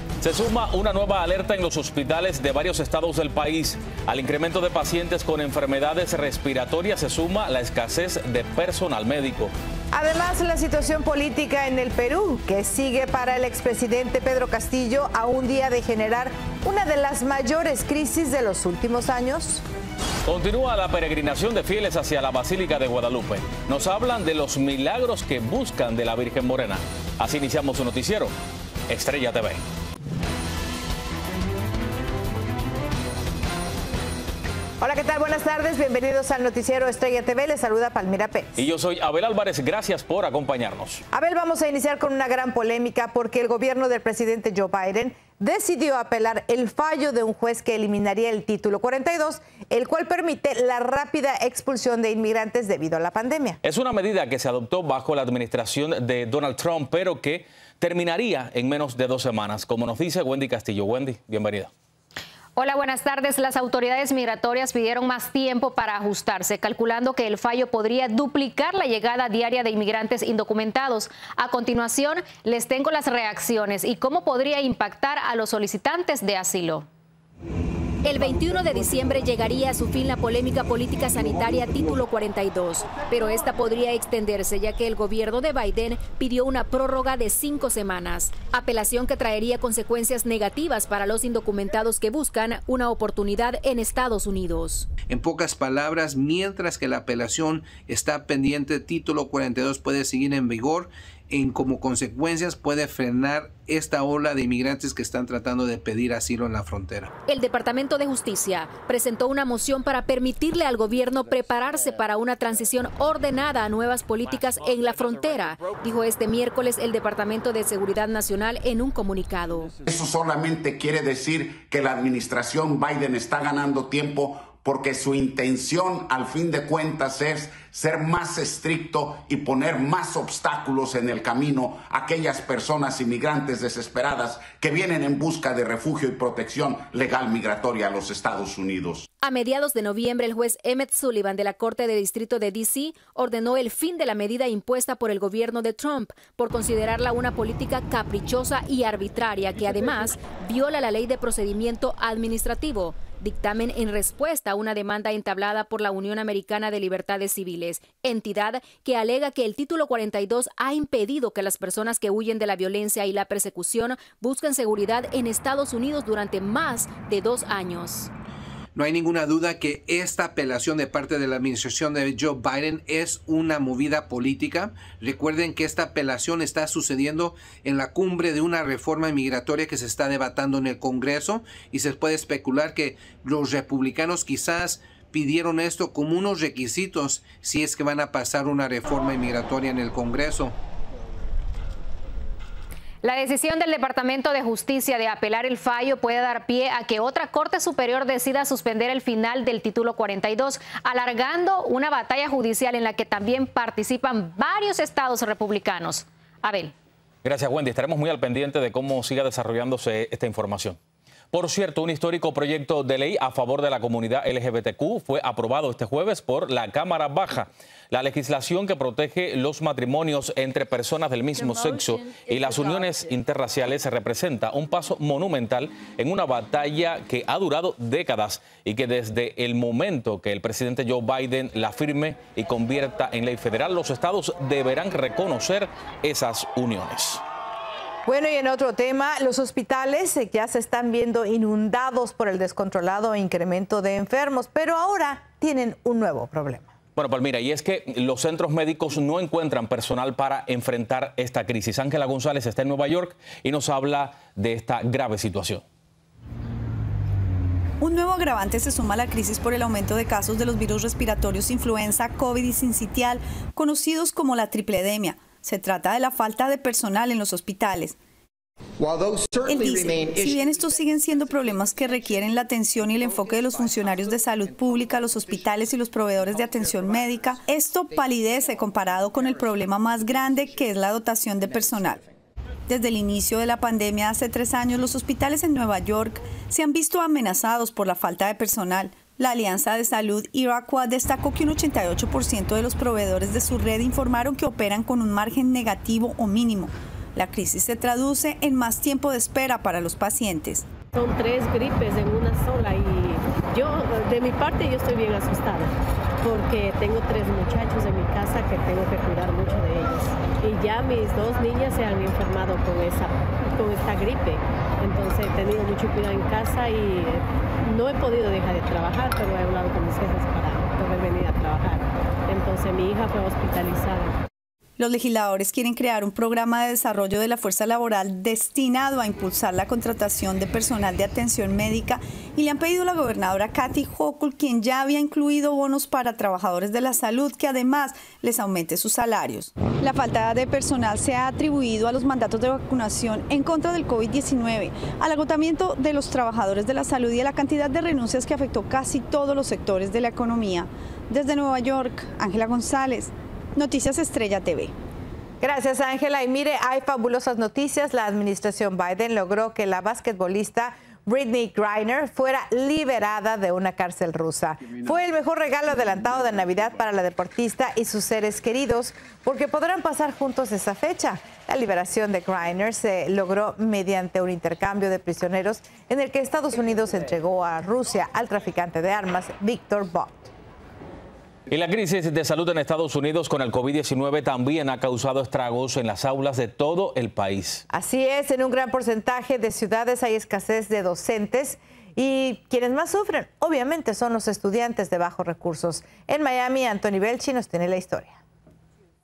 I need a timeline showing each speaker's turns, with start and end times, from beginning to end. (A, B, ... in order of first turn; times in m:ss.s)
0:00.2-0:09.5 A
0:09.9-0:19.6 B
0:20.2-0:28.3 A
0:28.9-0:29.6 A
0:34.8-0:38.5 B
0:38.6-0:41.0 A
0:41.1-0:53.6 B
0:53.6-1:01.7 A
1:02.6-1:16.9 C
1:18.0-1:34.9 C
1:35.1-1:47.1 D
1:47.3-1:59.7 C
1:59.8-2:19.0 E
2:19.2-2:48.1 C
2:48.7-3:10.5 D
3:13.0-3:26.7 C
3:27.2-3:30.8 A
3:31.3-3:57.2 A
3:58.0-4:06.7 B
4:07.0-4:15.6 A
4:17.8-4:27.9 F
4:29.4-4:42.0 F
4:42.7-5:00.6 F
5:00.9-5:05.7 G
5:06.2-5:24.2 G
5:24.8-5:54.7 F
5:55.4-6:20.3 B
6:21.5-6:27.6 A
6:27.7-6:38.2 B